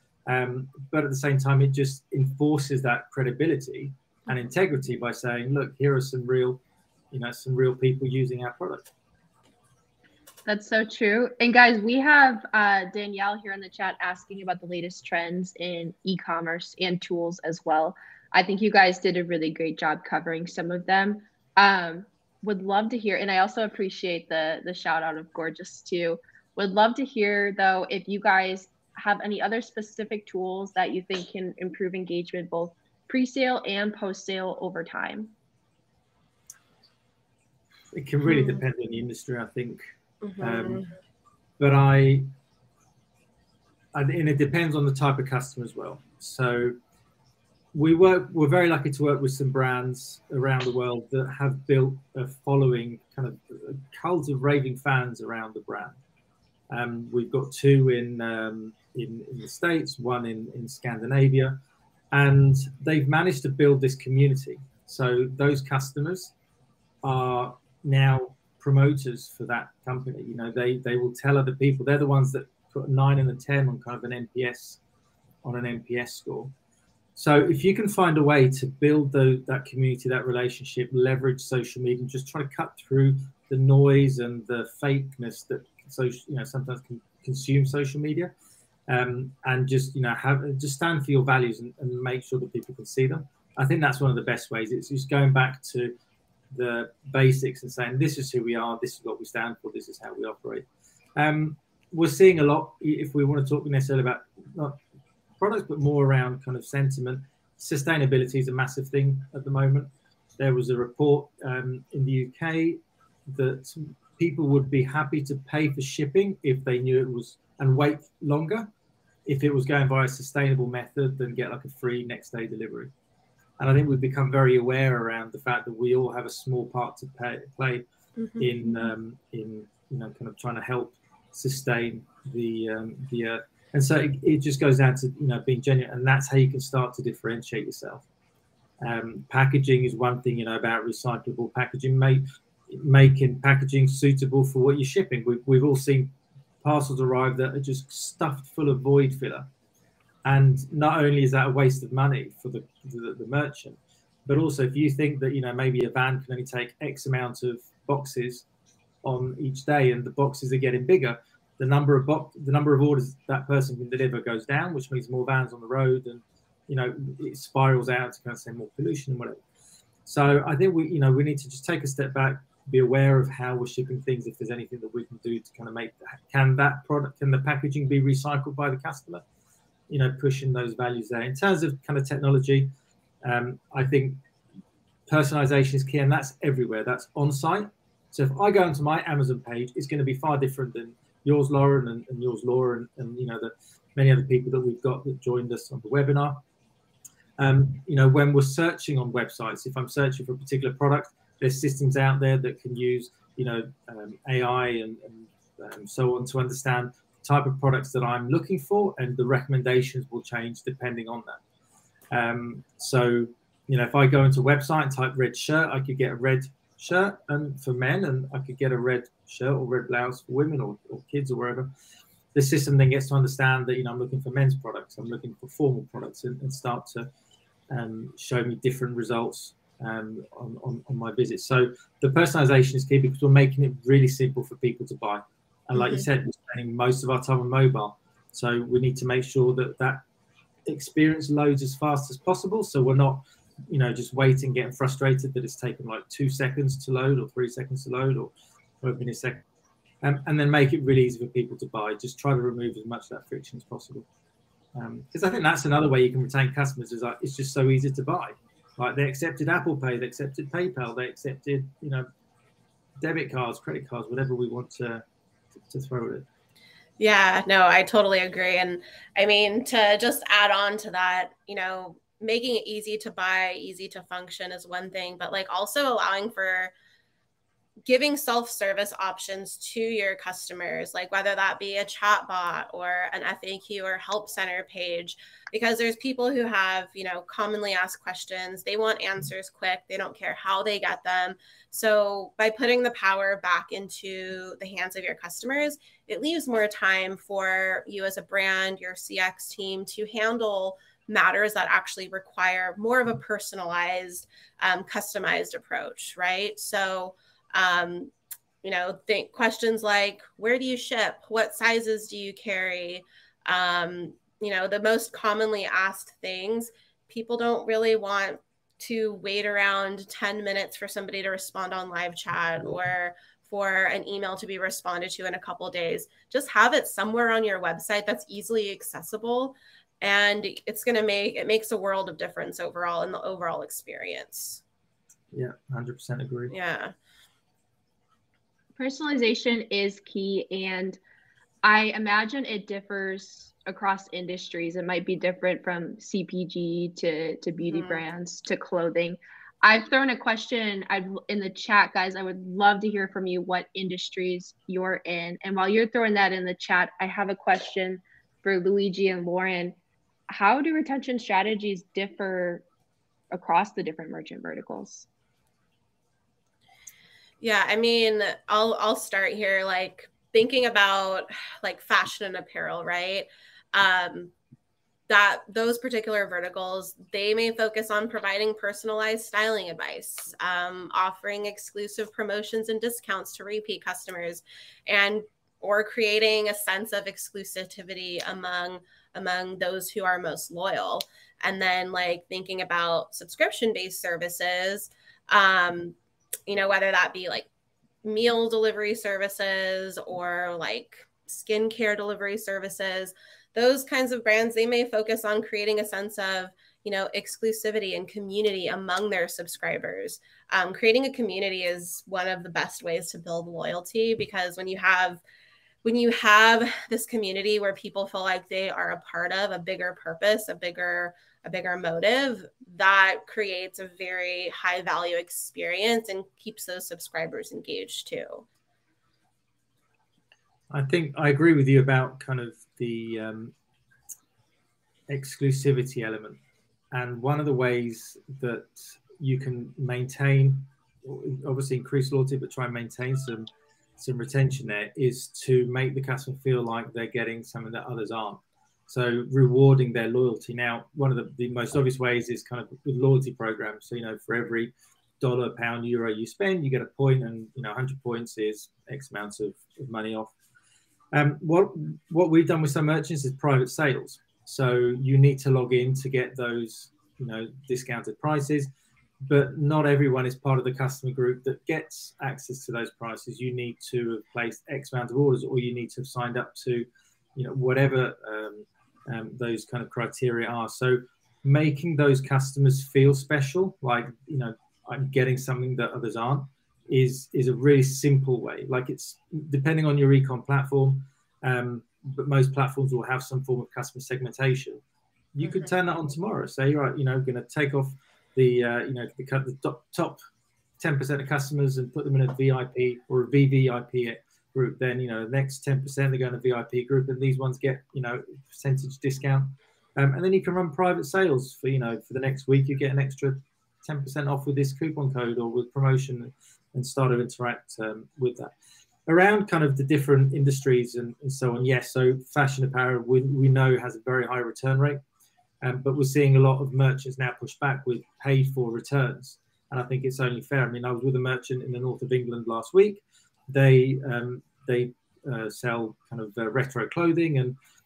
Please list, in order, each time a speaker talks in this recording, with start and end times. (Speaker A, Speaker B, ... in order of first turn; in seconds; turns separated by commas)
Speaker A: 0.3-6.6, Speaker A: 7.1-8.9, Speaker B: 10.4-35.3, Speaker A: 37.9-39.8, Speaker C: 38.3-38.6, Speaker C: 40.2-40.9, Speaker A: 40.4-40.9, Speaker A: 41.6-42.3, Speaker A: 43.9-46.7, Speaker A: 47.7-56.0, Speaker A: 56.7-61.6, Speaker A: 62.1-66.3, Speaker A: 67.0-74.8, Speaker A: 75.4-76.5, Speaker A: 77.2-88.3, Speaker A: 88.9-95.9, Speaker A: 96.5-104.8, Speaker A: 105.4-118.7, Speaker A: 119.2-122.9, Speaker A: 123.6-127.8, Speaker C: 128.2-128.5, Speaker A: 128.4-138.1, Speaker A: 138.8-149.5, Speaker A: 150.2-158.4, Speaker A: 159.0-169.4, Speaker A: 170.1-179.2, Speaker A: 179.9-182.7, Speaker A: 183.2-184.2, Speaker A: 185.1-196.4, Speaker A: 197.4-211.4, Speaker A: 212.1-221.7, Speaker A: 222.3-227.1, Speaker A: 227.7-240.0, Speaker C: 235.7-236.1, Speaker A: 240.7-249.4, Speaker A: 250.0-254.1, Speaker A: 254.7-262.1, Speaker A: 263.0-265.0, Speaker A: 265.7-266.2, Speaker C: 267.0-276.7, Speaker C: 277.9-308.1, Speaker C: 308.6-334.6, Speaker A: 335.3-336.5, Speaker C: 336.5-336.9, Speaker B: 338.8-341.0, Speaker B: 341.6-359.8, Speaker C: 347.7-348.0, Speaker B: 360.3-362.6, Speaker B: 363.3-365.1, Speaker C: 367.4-374.3, Speaker C: 375.1-395.9, Speaker C: 396.5-397.5, Speaker C: 398.0-415.2, Speaker C: 415.8-428.4, Speaker A: 430.7-433.5, Speaker A: 435.1-436.4, Speaker A: 436.9-460.3, Speaker A: 461.1-468.7, Speaker A: 469.2-494.8, Speaker A: 495.3-500.2, Speaker C: 495.4-495.7, Speaker A: 500.8-518.5, Speaker A: 519.0-525.0, Speaker A: 525.6-537.5